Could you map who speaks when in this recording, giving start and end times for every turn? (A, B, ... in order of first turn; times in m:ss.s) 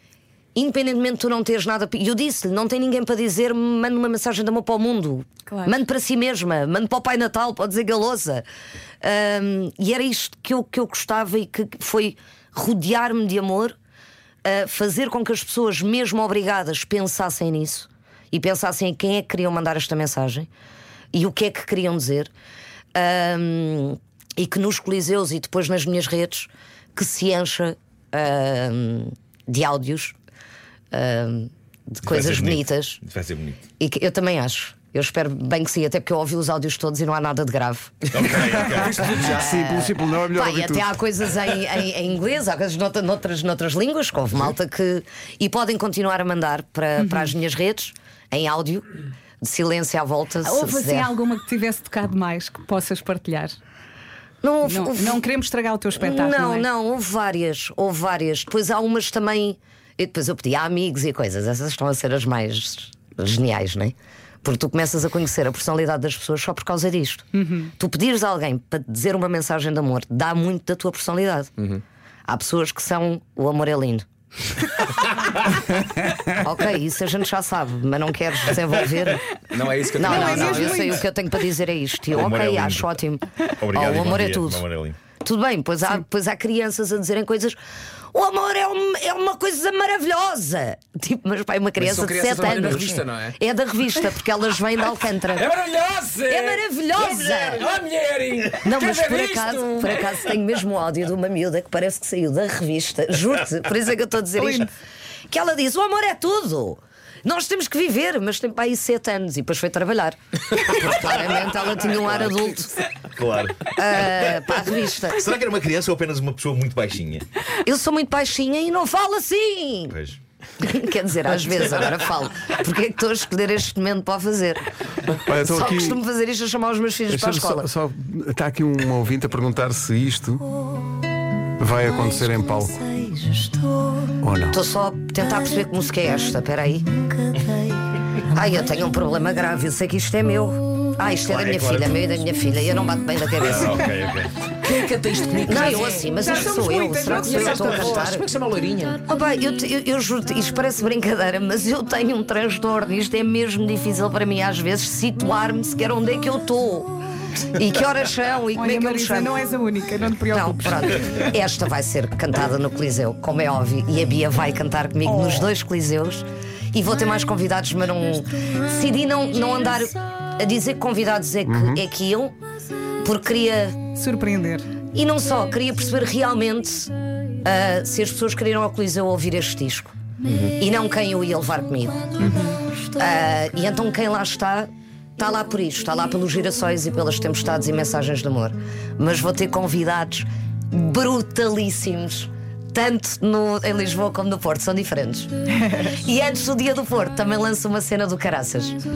0:00.6-0:08.4 A
0:05.5-0:05.7 B
0:09.0-0:13.8 A
0:14.4-0:20.5 A
0:21.1-0:22.3 A
0:22.9-0:30.2 A
0:30.9-0:33.0 A
0:32.0-0:33.6 C
0:33.8-0:37.9 A
0:38.1-0:39.4 C
0:38.4-0:40.9 D
0:39.2-0:48.9 A
0:47.0-0:47.3 B
0:49.4-0:51.1 A
0:50.4-0:53.6 B
0:54.4-0:55.2 A
0:54.6-0:56.6 B
0:56.0-1:11.5 A
1:12.3-1:14.1 A
1:16.3-1:19.2 A
1:19.5-1:20.8 E
1:20.0-1:24.6 A
1:20.0-1:21.0 B
1:22.1-1:23.0 C
1:23.6-1:25.0 C
1:25.2-1:27.6 A
1:28.1-1:35.5 A
1:31.8-1:33.4 E
1:35.3-1:40.2 E
1:36.3-1:37.6 A
1:38.6-1:44.7 A
1:44.4-1:44.7 B
1:45.3-1:52.8 A
1:50.9-1:51.2 C
1:53.1-1:54.1 C
1:53.7-1:55.2 A
1:55.1-1:57.2 C
1:57.6-2:00.0 A
1:59.9-2:00.2 C
2:00.6-2:04.6 A
2:05.2-2:06.0 D
2:05.3-2:07.7 A
2:07.1-2:10.4 D
2:11.6-2:12.8 D
2:12.8-2:23.9 A
2:14.2-2:14.6 D
2:21.2-2:22.0 C
2:23.4-2:24.3 C
2:24.6-2:26.1 E
2:25.4-2:28.3 A
2:26.1-2:27.7 B
2:27.0-2:29.0 E
2:29.0-2:37.0 A
2:37.5-2:39.3 A
2:38.5-2:41.3 B
2:40.3-2:52.4 A
2:45.0-2:45.5 B
2:51.4-2:51.8 D
2:53.0-2:53.8 A
2:53.9-2:54.7 B
2:54.9-2:59.9 A
3:00.2-3:00.5 E
3:00.6-3:18.8 A
3:02.2-3:02.6 B